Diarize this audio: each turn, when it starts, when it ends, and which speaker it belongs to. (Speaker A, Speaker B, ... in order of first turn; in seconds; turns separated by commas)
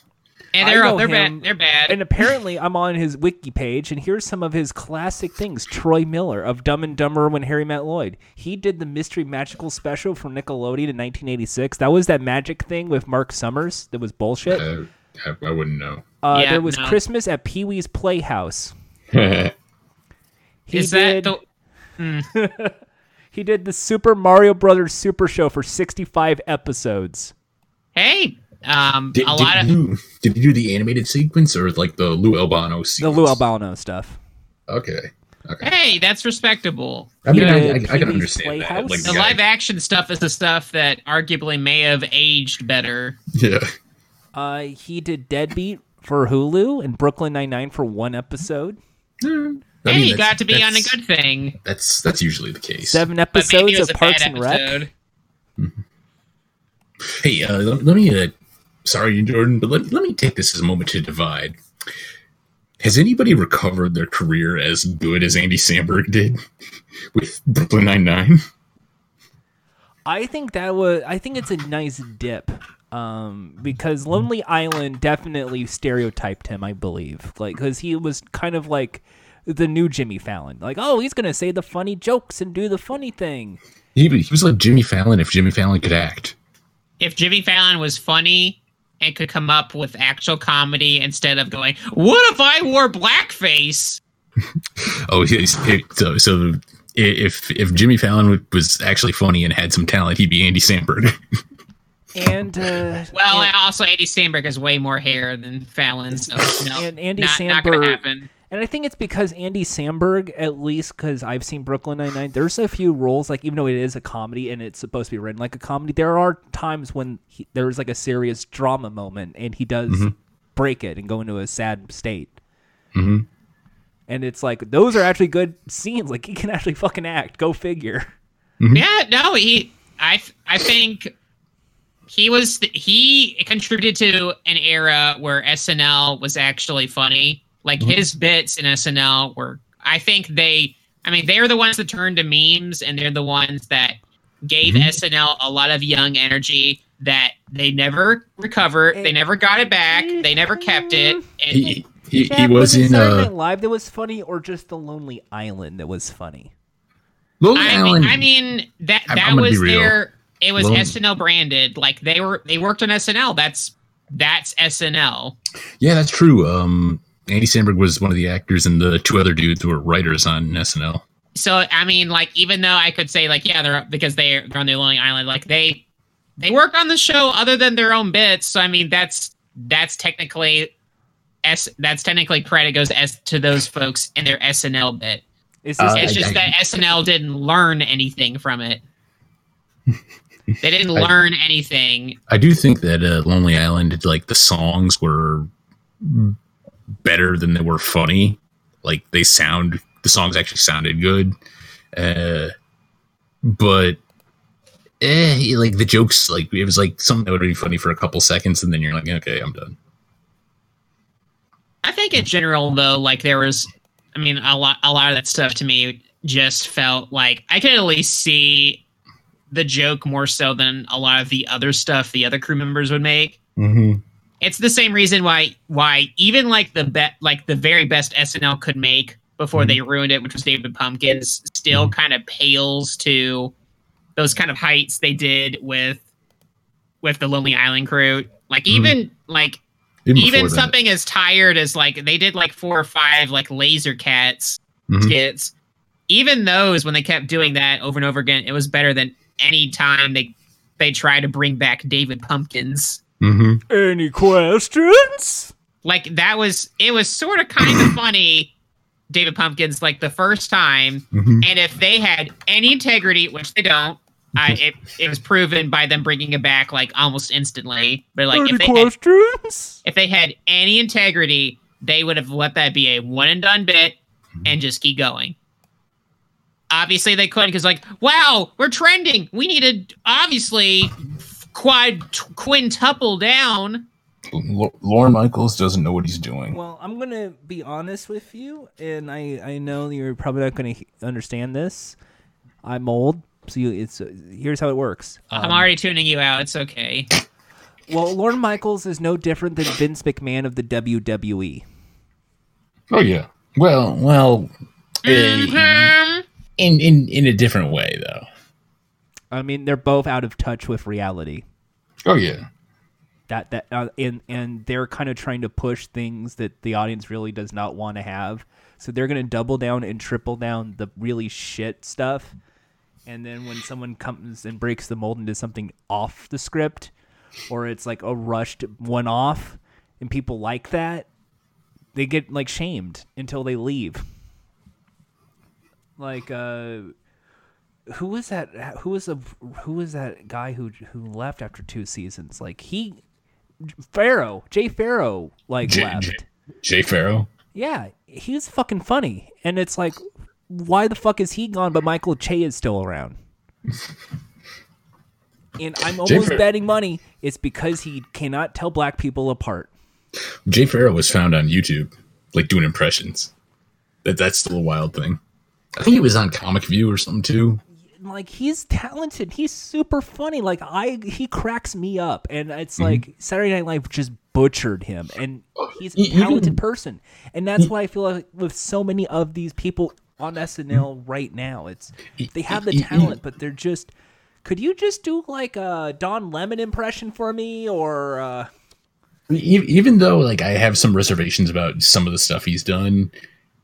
Speaker A: 0.5-2.0, Speaker B: 0.6-14.6, Speaker C: 14.5-16.1, Speaker B: 16.2-18.7, Speaker A: 16.3-17.0, Speaker C: 19.1-19.5, Speaker B: 20.7-21.4, Speaker A: 20.7-21.4, Speaker A: 22.0-22.3, Speaker B: 22.3-22.8, Speaker B: 23.3-27.3, Speaker A: 27.9-29.7, Speaker C: 29.1-33.4, Speaker B: 33.0-34.2, Speaker C: 34.7-35.7, Speaker A: 35.6-37.7, Speaker C: 37.2-39.4, Speaker B: 37.3-39.2, Speaker A: 39.0-43.2, Speaker C: 43.3-43.7, Speaker B: 44.3-48.8, Speaker C: 49.2-51.0, Speaker A: 49.9-51.6, Speaker C: 51.6-53.1, Speaker B: 52.9-54.9, Speaker A: 53.3-54.9, Speaker C: 57.1-61.6, Speaker C: 62.8-66.4, Speaker C: 67.1-68.5, Speaker B: 70.1-83.6, Speaker C: 84.0-86.3, Speaker A: 87.0-94.0, Speaker C: 94.8-101.2, Speaker B: 102.2-103.5, Speaker A: 103.1-108.3, Speaker B: 106.7-122.4, Speaker C: 122.9-123.3, Speaker B: 124.1-128.1, Speaker C: 128.6-128.8, Speaker A: 128.7-131.1, Speaker A: 132.1-151.8, Speaker C: 144.7-145.0, Speaker B: 148.9-156.5, Speaker C: 151.5-153.3, Speaker C: 157.4-158.3, Speaker A: 157.6-165.3, Speaker C: 159.1-160.0, Speaker C: 160.6-160.9, Speaker C: 165.8-171.0, Speaker A: 171.3-175.8, Speaker A: 176.4-180.7, Speaker A: 181.4-185.2, Speaker B: 185.7-186.2, Speaker C: 185.8-186.5, Speaker A: 186.0-188.8, Speaker C: 190.5-191.1, Speaker A: 190.6-192.2, Speaker C: 192.3-195.5, Speaker C: 196.0-196.4, Speaker C: 197.0-201.3, Speaker C: 201.9-202.5, Speaker C: 203.4-204.0, Speaker C: 205.0-209.8, Speaker A: 211.8-218.8, Speaker A: 219.5-223.4, Speaker C: 223.6-224.0, Speaker A: 224.4-233.5, Speaker A: 234.2-236.0, Speaker A: 237.0-239.6, Speaker C: 238.7-239.0, Speaker C: 240.1-240.7, Speaker A: 240.2-245.5, Speaker C: 244.9-245.1, Speaker A: 246.1-253.0, Speaker C: 253.2-253.6, Speaker B: 253.7-255.5, Speaker A: 255.8-258.5, Speaker A: 259.1-268.9, Speaker C: 261.1-261.5, Speaker B: 268.3-269.8, Speaker A: 269.9-275.4, Speaker A: 276.7-283.9, Speaker C: 284.3-286.6, Speaker B: 286.5-292.0, Speaker B: 292.6-295.7, Speaker A: 295.3-297.1, Speaker B: 297.9-301.6, Speaker C: 302.9-304.5, Speaker C: 305.0-305.9, Speaker A: 305.1-306.2, Speaker C: 306.6-308.3, Speaker B: 309.3-311.4, Speaker C: 312.1-312.5, Speaker B: 313.3-322.4, Speaker B: 323.1-326.9, Speaker B: 327.5-331.1, Speaker B: 331.9-334.0, Speaker B: 336.0-336.9, Speaker B: 337.9-343.0, Speaker B: 343.7-346.2, Speaker C: 345.6-347.3, Speaker B: 347.5-350.0, Speaker B: 350.5-353.2, Speaker B: 355.6-359.7, Speaker C: 356.0-356.4, Speaker C: 360.5-363.3, Speaker C: 364.0-365.2, Speaker C: 365.8-367.6, Speaker B: 368.0-383.9, Speaker C: 372.8-373.0, Speaker C: 375.6-376.6, Speaker C: 382.2-383.2, Speaker B: 384.4-388.5, Speaker C: 389.3-393.1